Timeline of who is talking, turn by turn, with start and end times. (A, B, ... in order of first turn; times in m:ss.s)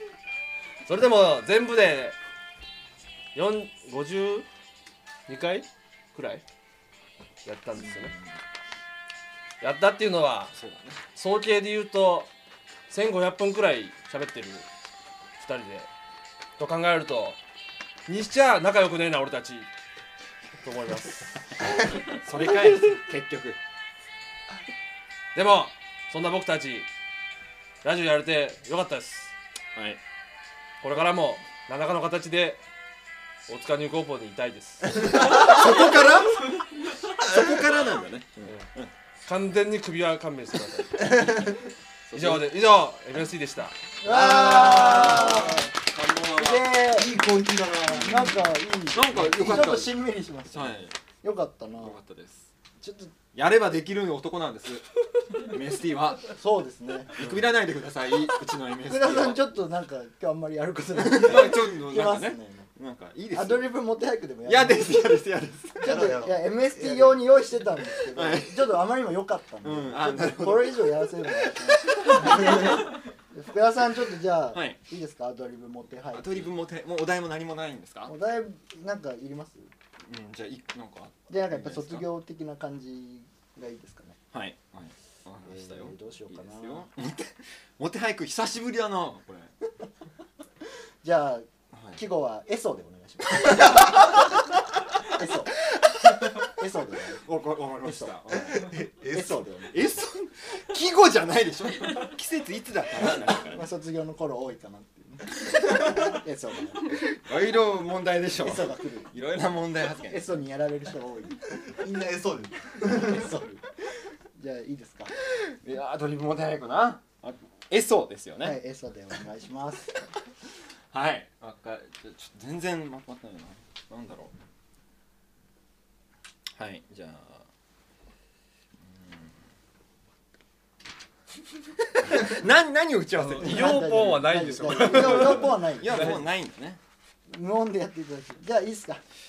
0:00.9-0:02.2 A
0:03.3-0:04.5 A
0:05.3-0:06.4 A
0:07.4-0:08.1 A
0:09.6-0:10.5 A
0:10.5-0:11.0 B
0:11.1-0:12.3 A
0:12.9-0:14.7 A
0:15.4-0:15.9 A
0:16.6-0:17.4 A
0:18.1-0:19.7 A
0:20.6-0:21.4 A
0:22.2-0:23.6 B
0:25.3-0:26.9 A
0:27.8-0:29.3 A
0:30.8-0:32.6 A
0:33.5-0:35.4 A
0:35.1-0:36.5 B
0:37.2-0:38.9 B
0:39.2-0:41.2 A
0:42.1-0:42.4 B
0:42.1-0:43.7 A
0:44.0-0:45.7 C
0:44.1-0:45.3 B
0:44.4-0:45.4 D
0:46.3-0:47.1 C
0:46.8-0:48.2 D
0:47.9-0:48.4 B
0:48.0-0:52.0 C
0:48.9-0:51.0 B
0:51.8-0:52.5 B
0:52.8-0:53.1 C
0:53.3-0:54.8 B
0:55.4-0:56.3 B
0:56.4-0:57.2 C
0:57.1-0:59.4 B
0:58.8-1:02.7 C
1:00.9-1:03.7 B
1:03.3-1:05.0 C
1:04.4-1:06.0 B
1:05.8-1:16.4 C
1:05.8-1:07.1 D
1:08.1-1:08.7 B
1:09.6-1:11.5 B
1:12.1-1:12.6 B
1:16.1-1:18.1 B
1:18.1-1:19.7 C
1:20.1-1:22.0 B
1:21.3-1:24.2 C
1:24.3-1:29.5 B
1:25.5-1:26.8 C
1:31.0-1:34.2 C
1:31.7-1:32.0 B
1:35.1-1:35.6 C
1:36.4-1:37.2 C
1:37.2-1:38.7 B
1:37.8-1:38.1 C
1:38.5-1:39.3 D
1:39.1-1:40.0 C
1:39.7-1:43.7 B
1:43.5-1:47.0 C
1:47.1-1:50.3 B
1:48.3-1:49.1 C
1:50.0-1:51.4 C
1:51.8-1:52.7 D
1:52.8-1:53.6 C
1:54.3-1:55.1 C
1:55.5-1:58.6 B
1:58.4-2:00.0 C
2:00.9-2:04.3 B
2:06.6-2:07.4 B
2:08.8-2:09.4 B
2:12.0-2:14.0 B
2:13.2-2:16.2 C
2:13.4-2:15.6 A
2:14.7-2:16.8 B
2:17.3-2:19.0 C